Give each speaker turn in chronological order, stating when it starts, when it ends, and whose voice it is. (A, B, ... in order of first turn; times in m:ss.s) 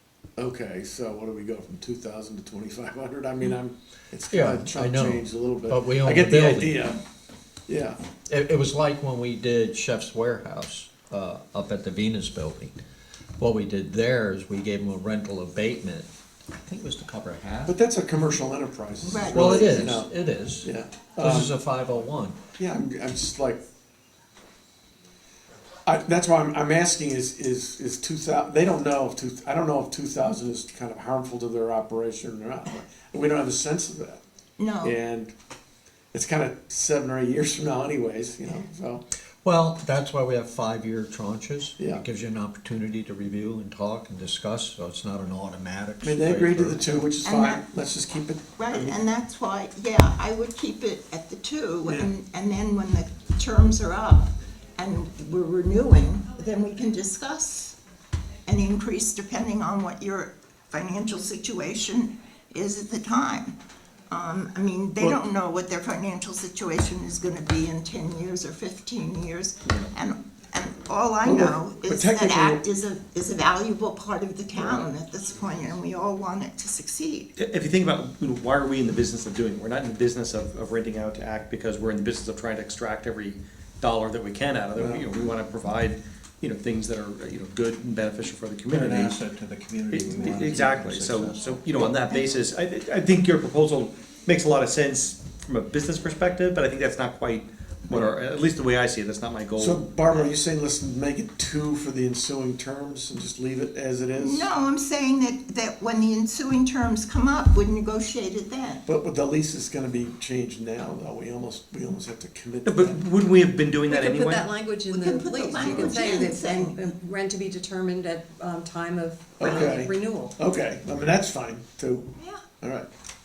0:00.4-0:07.0 A
0:04.3-0:06.8 B
0:07.7-0:08.0 A
0:08.3-0:12.8 B
0:13.4-0:17.8 B
0:17.7-0:20.1 A
0:19.0-0:19.9 C
0:19.3-0:22.4 B
0:20.6-0:21.5 A
0:22.6-0:23.6 A
0:25.9-0:34.2 A
0:34.6-0:35.0 C
0:34.8-0:35.3 A
0:36.1-0:39.0 A
0:39.4-0:47.1 B
0:46.0-0:48.9 A
0:47.2-0:47.6 C
0:48.6-0:57.8 C
0:58.5-1:03.6 C
1:04.1-1:17.3 C
1:11.2-1:12.6 A
1:14.6-1:14.9 A
1:17.4-1:29.2 D
1:24.8-1:25.0 A
1:28.7-1:31.6 B
1:29.9-1:39.8 D
1:39.6-1:44.5 A
1:44.2-1:48.8 C
1:48.9-1:53.0 A
1:52.6-1:54.4 D
1:53.9-2:00.4 E
1:54.9-1:56.9 C
1:59.4-2:02.1 A
2:02.2-2:02.4 C
2:02.6-2:02.9 A